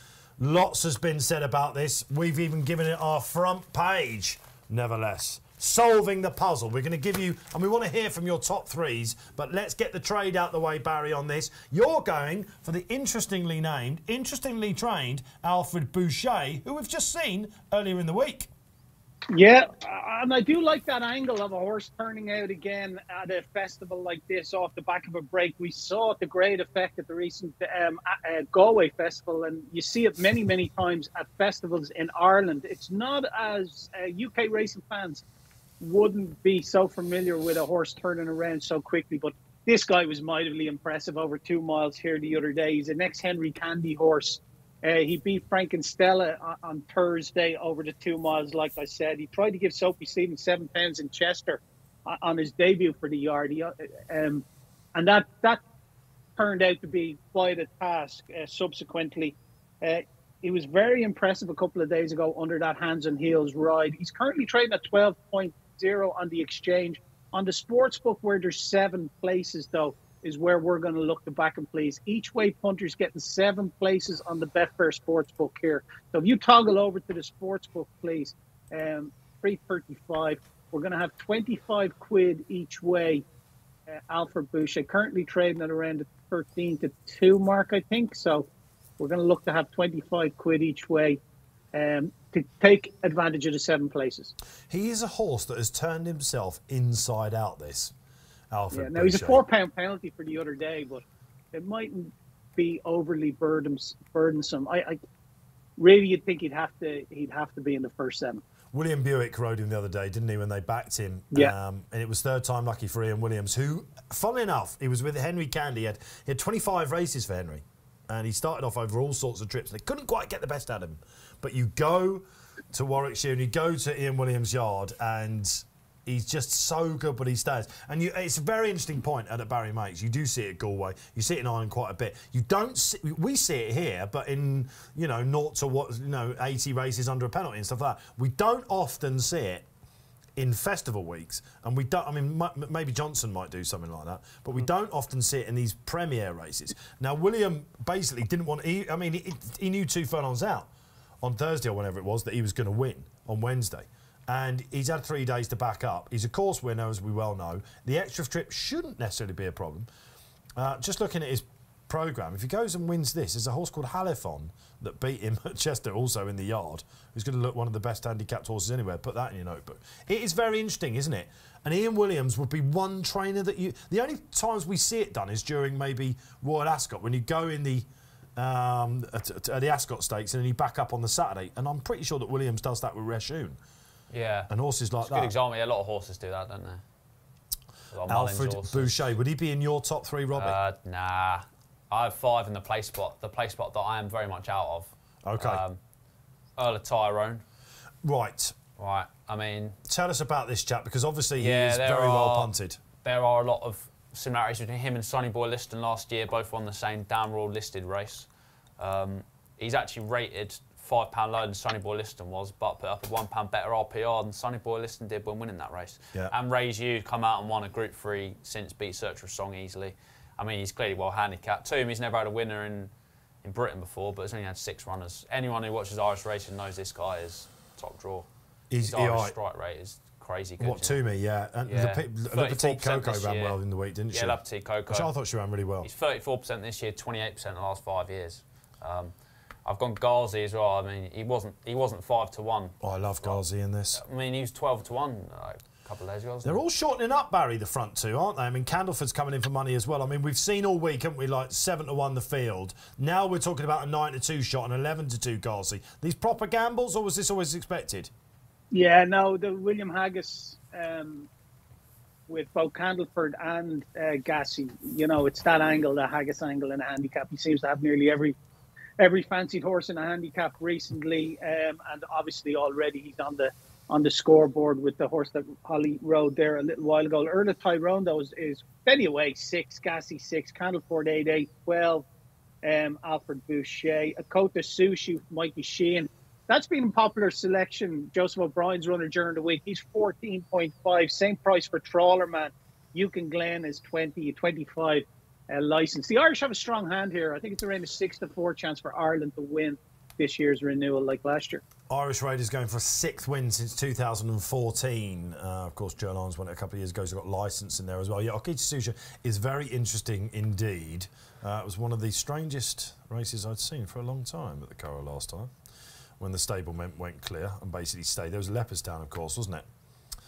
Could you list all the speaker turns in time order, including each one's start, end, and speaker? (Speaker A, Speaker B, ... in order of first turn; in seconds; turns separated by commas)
Speaker A: 0.4-18.5, Speaker B: 19.3-35.2, Speaker B: 35.8-55.6, Speaker B: 56.4-83.2, Speaker B: 83.9-91.2, Speaker B: 91.7-94.3, Speaker A: 94.7-97.9, Speaker A: 98.5-99.4, Speaker B: 98.7-105.0, Speaker B: 105.8-108.4, Speaker A: 108.7-139.7, Speaker A: 140.4-150.7, Speaker A: 151.2-159.9, Speaker A: 160.6-183.6, Speaker C: 184.1-184.5, Speaker A: 184.5-185.3, Speaker C: 185.0-186.8, Speaker C: 187.9-189.2, Speaker A: 188.1-190.6, Speaker C: 190.3-195.8, Speaker A: 195.2-195.6, Speaker C: 196.6-197.4, Speaker A: 198.0-198.6, Speaker C: 198.8-199.8, Speaker A: 199.9-202.8, Speaker C: 201.4-202.5, Speaker C: 203.0-208.3, Speaker C: 208.8-222.9, Speaker C: 223.4-228.3, Speaker A: 228.7-229.3, Speaker C: 228.8-231.0, Speaker A: 230.6-235.9, Speaker C: 231.7-233.6, Speaker C: 234.1-235.1, Speaker C: 235.8-239.1, Speaker C: 239.7-243.4, Speaker A: 242.8-244.0, Speaker C: 243.9-246.6, Speaker A: 246.4-258.1, Speaker B: 258.7-261.3, Speaker B: 262.3-268.4, Speaker B: 269.0-282.1, Speaker B: 282.6-301.6, Speaker A: 301.9-315.5, Speaker A: 316.2-319.7